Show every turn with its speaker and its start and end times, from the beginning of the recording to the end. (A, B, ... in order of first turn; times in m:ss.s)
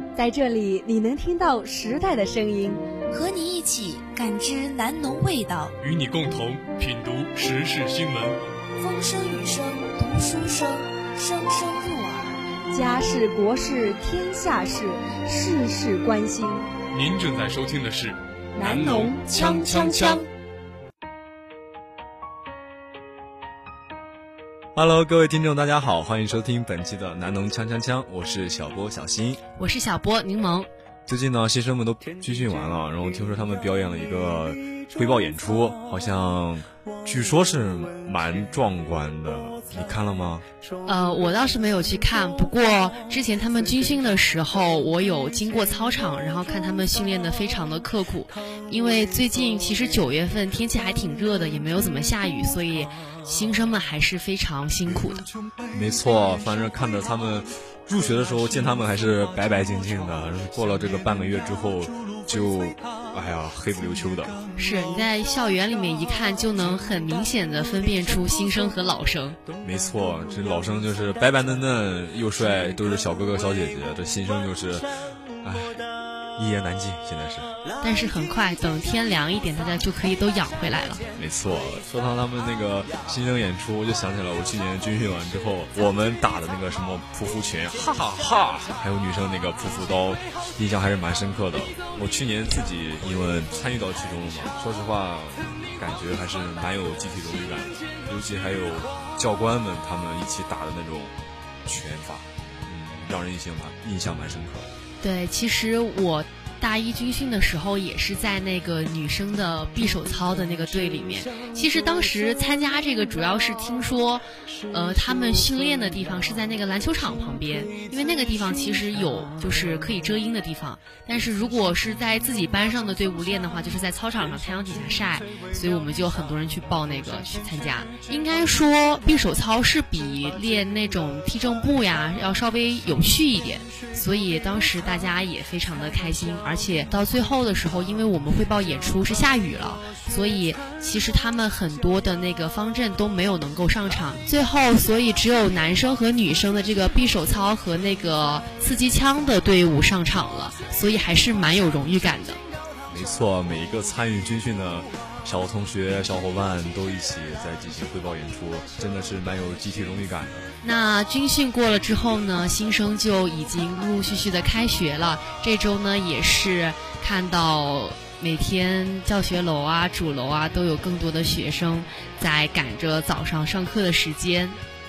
0:00.1-0:02.8 A
0:03.1-0:05.7 B
0:05.8-0:08.4 C
0:08.8-0:12.4 B
0:12.7-0:16.7 A
0:16.9-0:20.1 C
0:18.6-0:19.4 A
0:19.1-0:20.3 B
0:24.7-0:29.4 D
0:29.6-0:30.7 E
0:31.1-0:40.4 D
0:40.8-0:55.3 E
0:55.7-1:04.4 D
1:04.6-1:09.4 E
1:09.6-1:14.9 D
1:15.4-1:15.8 D
1:16.4-1:17.5 D
1:17.8-1:21.0 E
1:21.2-1:41.1 D
1:41.6-1:44.7 D
1:45.0-2:32.4 E
2:32.9-2:40.5 D
2:40.6-2:54.6 E